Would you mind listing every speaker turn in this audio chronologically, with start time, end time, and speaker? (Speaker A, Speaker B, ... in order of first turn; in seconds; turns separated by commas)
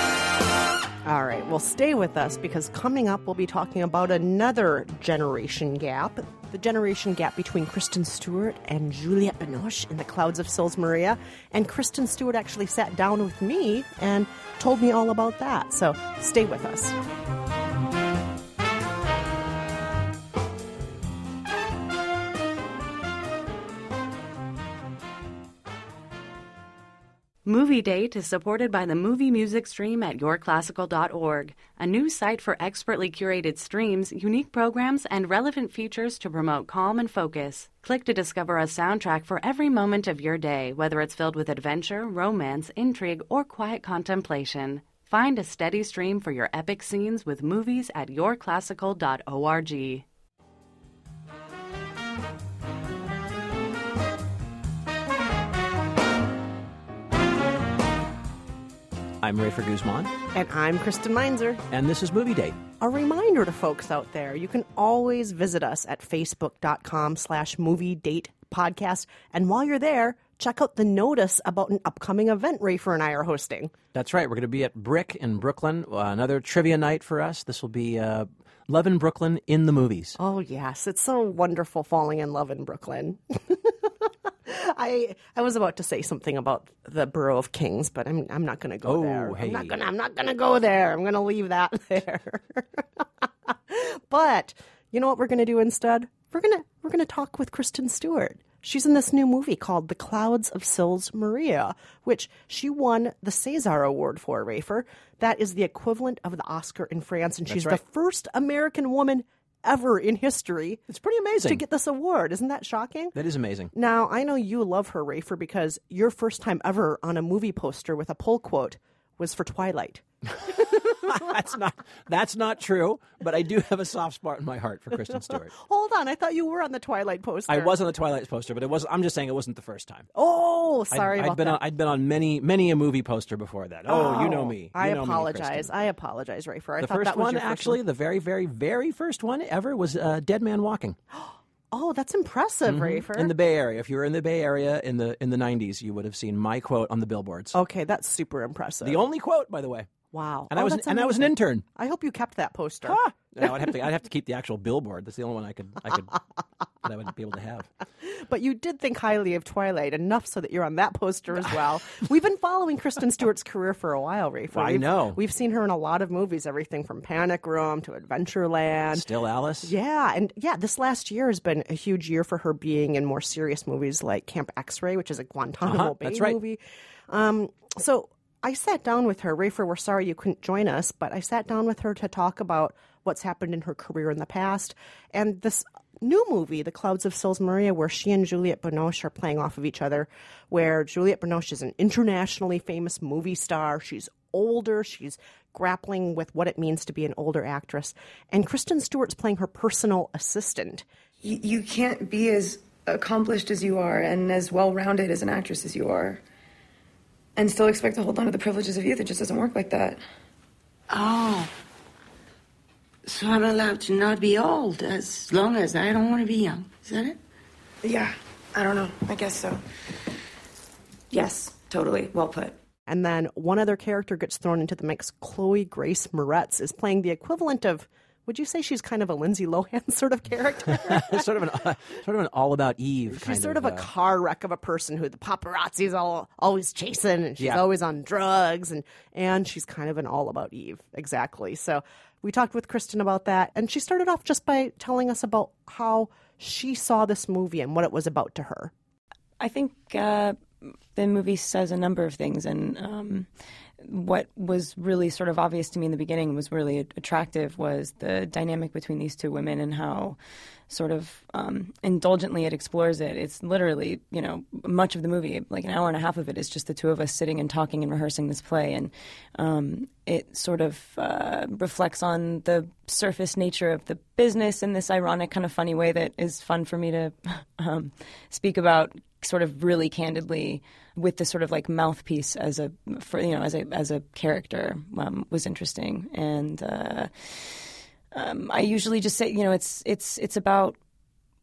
Speaker A: 1.1-17.0, Speaker B: 27.4-50.1, Speaker C: 59.2-60.1, Speaker A: 60.3-61.6, Speaker C: 61.7-62.6, Speaker A: 62.8-73.7, Speaker C: 73.9-80.2, Speaker A: 80.2-83.9, Speaker A: 84.5-110.8, Speaker C: 88.8-89.8, Speaker C: 107.5-107.8, Speaker C: 110.9-111.6, Speaker A: 111.5-113.2, Speaker C: 113.2-113.7, Speaker A: 113.7-121.3, Speaker C: 120.4-125.5, Speaker A: 125.5-127.8, Speaker C: 127.5-130.1, Speaker A: 130.2-131.6, Speaker C: 130.9-135.7, Speaker A: 133.9-137.8, Speaker C: 136.8-141.0, Speaker A: 141.1-143.3, Speaker C: 142.7-147.6, Speaker A: 147.5-149.0, Speaker C: 148.8-149.9, Speaker A: 150.1-153.0, Speaker C: 150.5-151.7, Speaker C: 152.8-156.2, Speaker C: 156.8-157.7, Speaker A: 158.0-169.1, Speaker C: 164.5-165.2, Speaker C: 168.9-169.7, Speaker A: 169.6-200.9, Speaker C: 175.6-176.4, Speaker D: 201.2-206.2, Speaker D: 207.4-210.0, Speaker E: 210.9-211.5, Speaker E: 213.1-217.2, Speaker E: 218.6-219.0, Speaker D: 218.9-219.6, Speaker D: 221.1-222.6, Speaker A: 222.9-231.3, Speaker C: 230.8-233.9, Speaker A: 233.1-248.7, Speaker F: 249.4-253.3, Speaker F: 253.8-260.2, Speaker F: 260.7-290.8